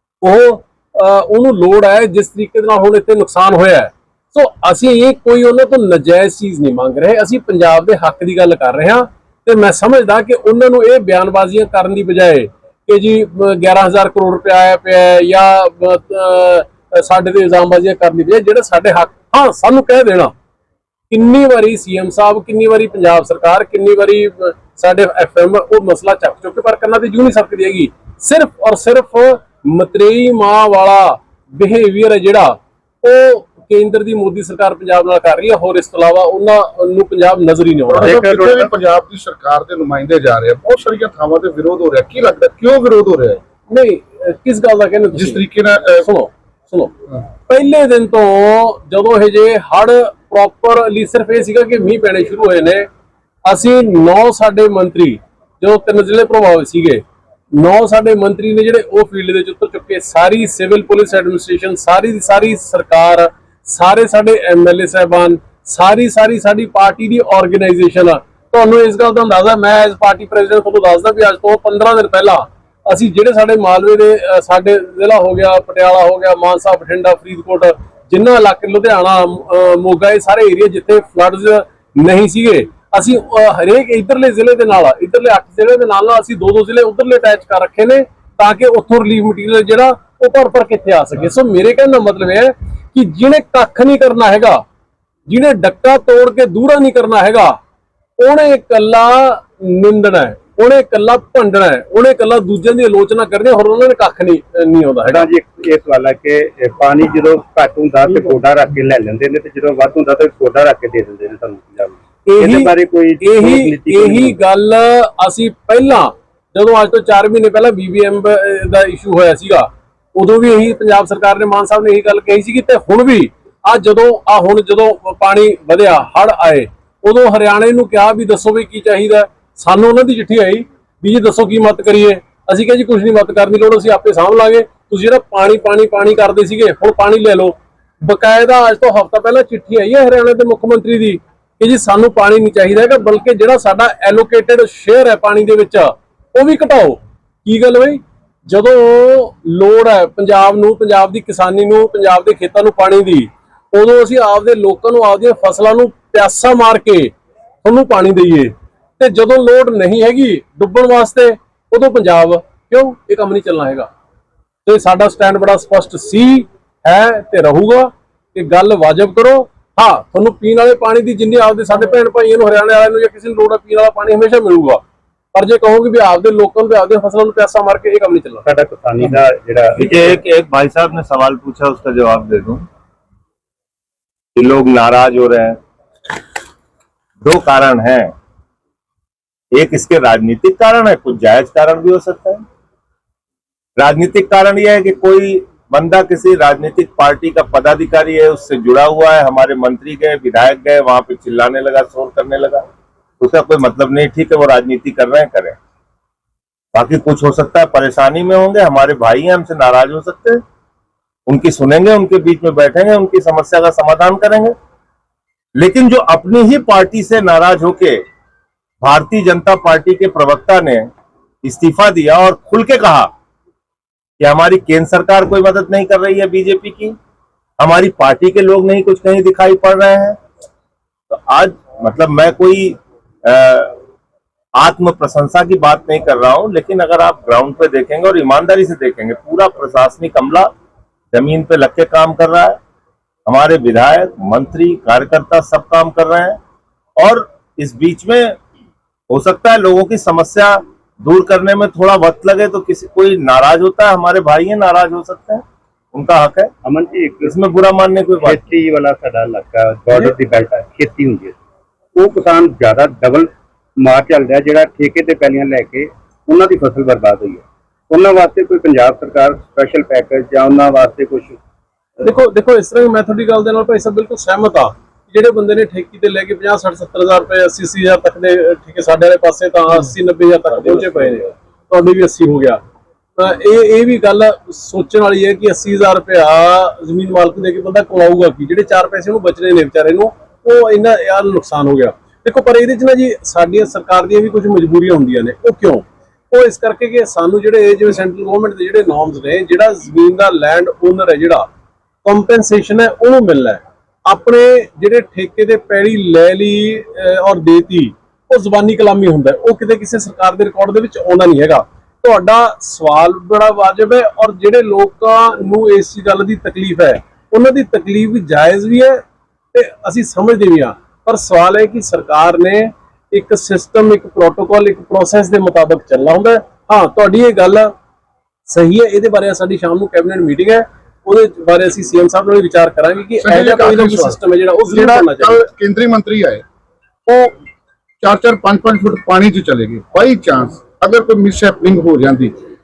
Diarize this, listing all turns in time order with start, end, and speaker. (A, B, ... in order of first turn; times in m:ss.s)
0:00.2-0:20.3 A
0:21.1-0:38.5 A
0:37.9-0:43.4 B
0:43.7-0:45.4 A
0:45.1-0:46.1 B
0:46.0-0:46.9 A
0:47.5-0:52.9 A
0:53.4-0:57.0 A
0:57.6-1:34.6 A
1:35.3-1:37.6 A
1:38.2-1:45.3 A
1:45.1-1:54.4 C
1:52.3-2:43.9 A
2:44.7-2:54.8 A
2:55.3-2:58.4 A
2:58.4-2:59.9 C
2:59.8-3:02.6 D
3:04.4-3:05.6 D
3:07.2-3:08.1 D
3:09.6-3:12.4 D
3:13.8-3:22.7 D
3:23.2-3:25.6 D
3:26.7-3:30.4 D
3:31.3-3:34.6 D
3:35.6-3:38.0 D
3:38.8-3:40.9 D
3:41.4-3:43.1 D
3:44.2-3:47.0 D
3:47.6-3:50.2 D
3:51.1-3:53.8 D
3:54.6-4:00.5 D
4:01.1-4:02.6 D
4:03.3-4:06.4 D
4:07.0-4:08.4 D
4:09.1-4:16.5 D
4:16.6-4:17.4 C
4:17.2-4:18.4 D
4:18.2-4:21.4 C
4:22.0-4:31.4 C
4:32.0-4:42.6 A
4:43.2-5:01.5 A
5:02.0-5:19.0 A
5:19.5-5:27.7 A
5:28.5-5:35.4 A
5:33.2-5:36.4 B
5:37.1-5:37.3 B
5:38.0-5:42.4 B